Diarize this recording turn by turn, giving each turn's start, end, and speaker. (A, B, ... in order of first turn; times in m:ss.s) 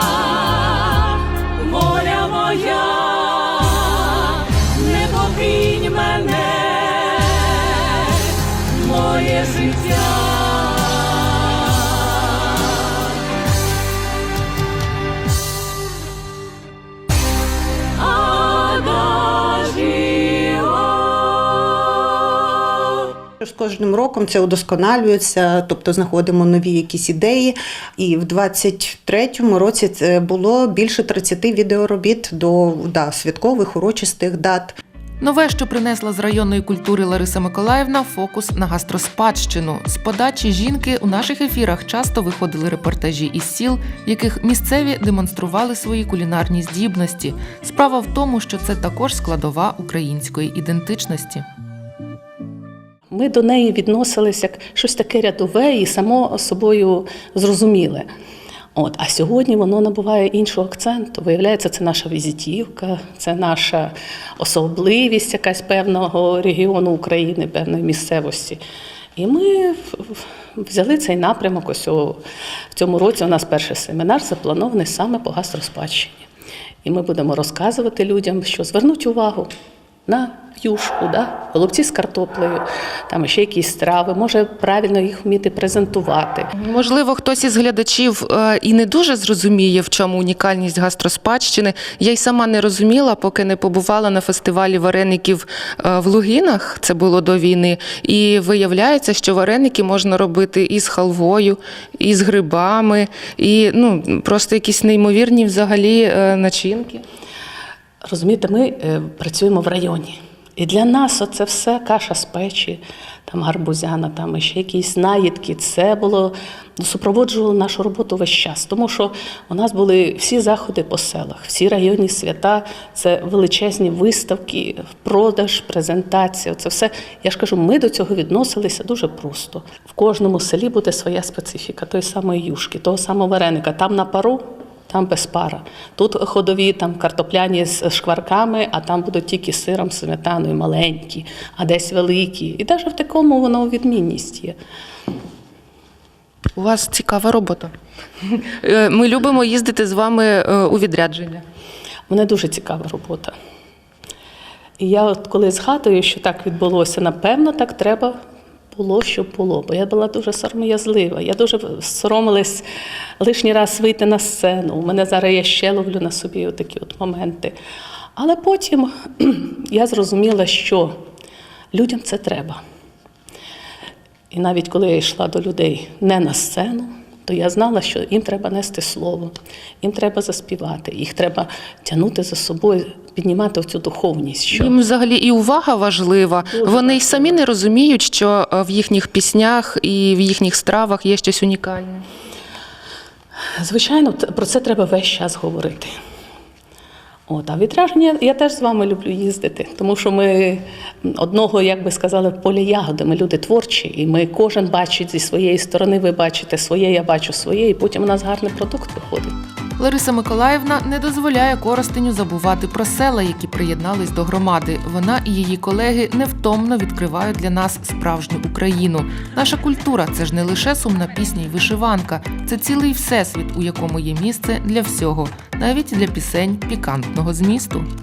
0:23.4-0:34.8 A
0:35.2-0:51.4 B
0:53.1-0:58.1 C
0:58.8-1:08.6 C
1:09.2-1:16.3 C
1:16.8-1:19.5 C
1:20.0-1:26.5 C
1:26.6-1:47.0 B
1:48.0-2:24.6 C
2:26.6-2:27.7 B
2:28.5-2:31.4 B
2:32.1-2:33.4 C
2:34.8-2:38.2 C
2:38.7-2:42.6 C
2:43.2-2:47.6 C
2:48.2-2:51.0 C
2:51.7-2:52.6 C
2:54.3-3:04.8 C
3:04.5-3:12.0 B
3:06.5-3:07.4 C
3:13.6-3:15.9 C
3:17.3-3:29.4 C
3:29.8-3:47.9 B